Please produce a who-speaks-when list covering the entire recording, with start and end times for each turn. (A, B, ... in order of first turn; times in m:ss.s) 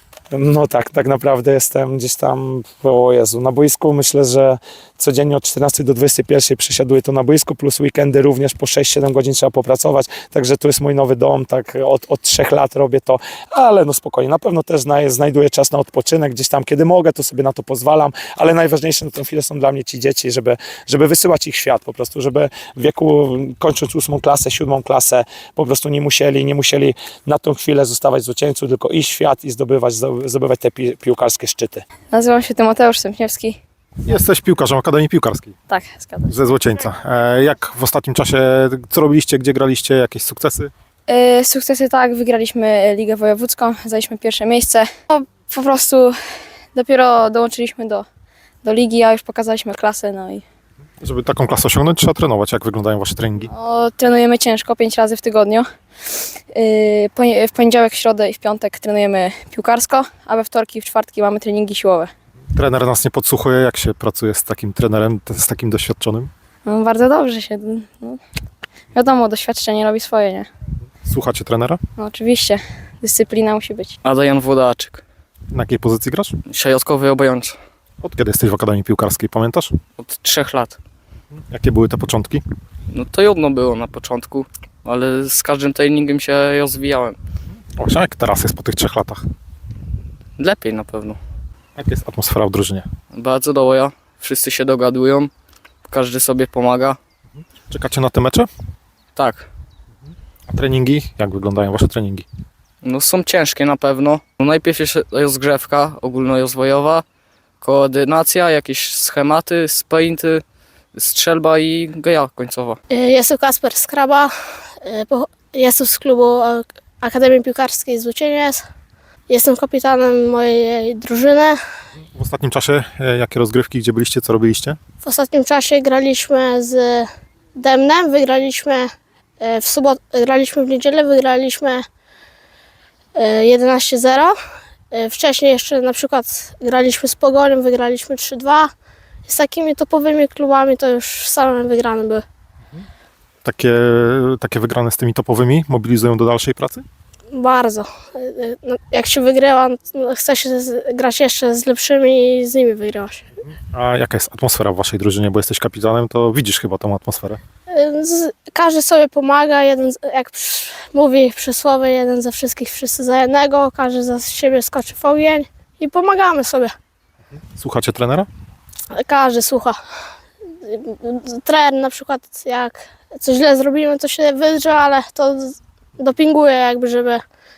0:00.3-0:31.8 A
0:32.1-0:33.6 B
0:34.0-0:35.5 C
0:35.7-0:36.4 B
0:36.3-0:40.7 C
0:41.1-0:46.2 B
0:46.7-0:48.1 B
0:48.6-0:50.4 B
0:51.0-0:53.5 C
0:53.5-0:55.7 B
0:56.5-1:02.1 B
1:02.6-1:06.3 C
1:06.7-1:08.2 B
1:08.9-1:10.5 B
1:11.1-1:11.8 C
1:12.0-1:14.0 B
1:14.0-1:15.0 D
1:15.5-1:16.4 C
1:16.5-1:17.6 D
1:18.0-1:19.8 C
1:20.0-1:20.8 D
1:21.5-1:22.4 C
1:22.9-1:27.2 D
1:27.8-1:29.3 C
1:30.4-1:31.2 D
1:31.8-1:32.9 C
1:33.1-1:35.3 D
1:35.9-1:37.0 D
1:37.7-1:38.5 C
1:39.2-1:39.5 D
1:40.5-1:42.3 C
1:42.8-1:47.0 D
1:47.6-1:52.8 D
1:52.9-1:54.3 E
1:54.8-1:58.6 E
1:59.3-2:01.6 E
2:02.2-2:04.8 C
2:05.0-2:08.9 E
2:09.4-2:11.8 E
2:13.2-2:14.3 E
2:14.9-2:18.7 E
2:19.3-2:22.2 E
2:23.4-2:26.8 C
2:27.3-2:33.2 E
2:33.7-2:37.4 C
2:37.7-2:46.7 E
2:47.6-2:48.3 C
2:48.9-2:49.8 E
2:50.6-2:57.2 E